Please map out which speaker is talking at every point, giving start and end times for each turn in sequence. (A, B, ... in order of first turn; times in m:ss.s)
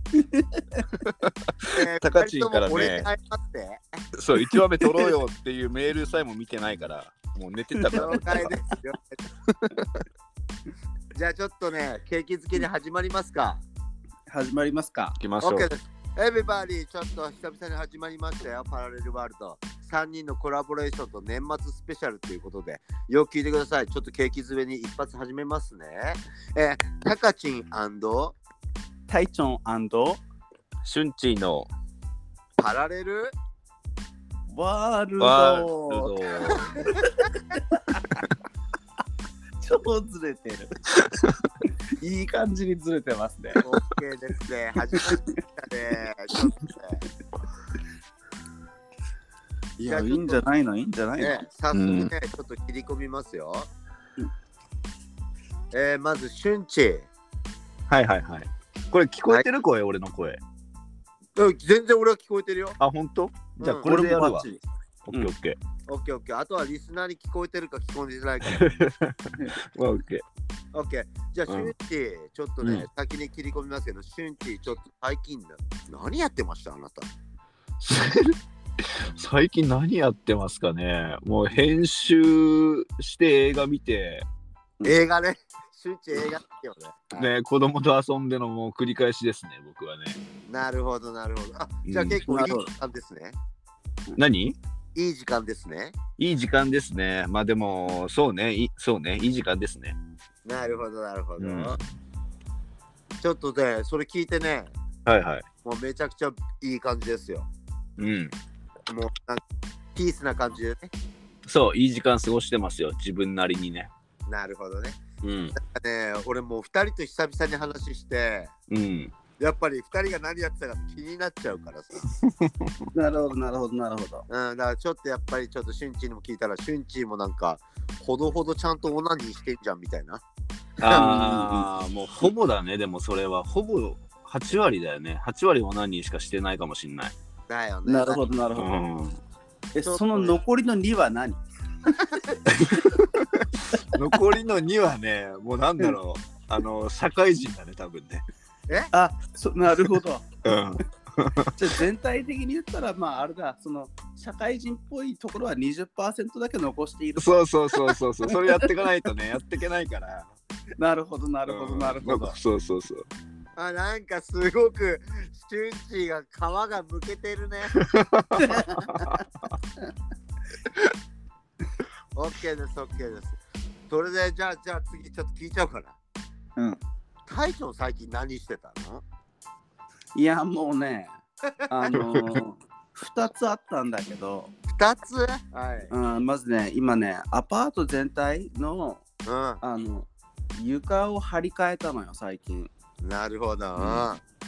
0:00.1-0:00.9 A
0:01.0-0:03.1 B
0:01.7-0:03.8 C
0:04.1-0:08.5 B
0:04.5-0:05.1 A
0:07.7-0:08.5 A
0:07.9-0:09.2 C
0:09.5-0:09.9 B
0:11.1-0:13.6 C
0:14.3-0:15.2 A
0:15.2-0:15.7 B
0:15.4-0:28.4 C
0:29.1-0:30.2 A
0:30.8-0:31.7 B
0:32.6-0:33.3 C
0:34.5-0:38.2 A
0:35.2-0:36.8 B
0:39.6-0:40.7 A
0:41.0-0:41.3 B
0:42.0-0:43.6 A
0:43.6-0:47.0 C
0:44.9-0:45.3 A
0:49.8-0:51.4 A
0:49.8-0:50.5 C
0:51.2-0:53.7 C
0:51.7-0:52.1 B
0:55.7-0:57.1 C
0:57.9-1:00.4 B
1:01.3-1:02.8 C
1:02.8-1:04.4 B
1:03.6-1:03.9 C
1:03.9-1:05.3 A
1:05.1-1:05.6 B
1:05.9-1:08.6 C
1:08.4-1:10.2 B
1:10.7-1:17.1 C
1:12.6-1:12.8 B
1:17.8-1:24.2 B
1:24.8-1:27.3 C
1:27.2-1:30.2 B
1:30.4-1:33.4 C
1:31.8-1:32.2 B
1:32.3-1:32.7 A
1:34.2-1:34.6 B
1:34.9-1:36.0 C
1:36.2-1:40.0 B
1:40.4-1:41.8 C
1:41.4-1:41.8 B
1:43.2-1:44.7 C
1:45.0-1:45.4 B
1:45.6-1:47.5 C
1:48.0-1:48.3 B
1:48.9-1:49.4 C
1:49.9-1:50.9 C
1:51.4-1:53.9 B
1:54.3-1:55.0 C
1:55.2-1:55.5 B
1:55.5-1:58.5 C
1:58.7-1:59.1 B
1:59.4-2:02.0 C
2:02.2-2:02.7 B
2:02.9-2:04.3 A
2:04.3-2:10.2 C
2:10.8-2:17.1 B
2:10.8-2:11.1 C
2:10.9-2:11.6 A
2:17.5-2:18.2 C
2:17.8-2:18.7 A
2:18.6-2:19.2 B
2:19.7-2:21.4 A
2:19.8-2:20.4 C
2:22.0-2:22.4 C
2:22.5-2:28.2 B
2:28.9-2:30.3 A
2:30.4-2:31.7 B
2:31.5-2:38.7 A
2:37.2-2:40.3 B
2:40.8-2:42.4 A
2:41.4-2:43.0 B
2:43.6-2:47.8 C
2:47.7-2:49.2 B
2:48.4-2:49.2 A
2:52.1-2:56.0 C
2:57.2-2:59.0 C
3:00.1-3:01.2 A
3:01.7-3:04.5 A
3:02.0-3:02.4 B
3:04.7-3:05.9 C
3:05.9-3:09.0 A
3:09.2-3:09.6 C
3:09.6-3:12.7 A
3:13.0-3:14.2 C
3:13.8-3:14.0 B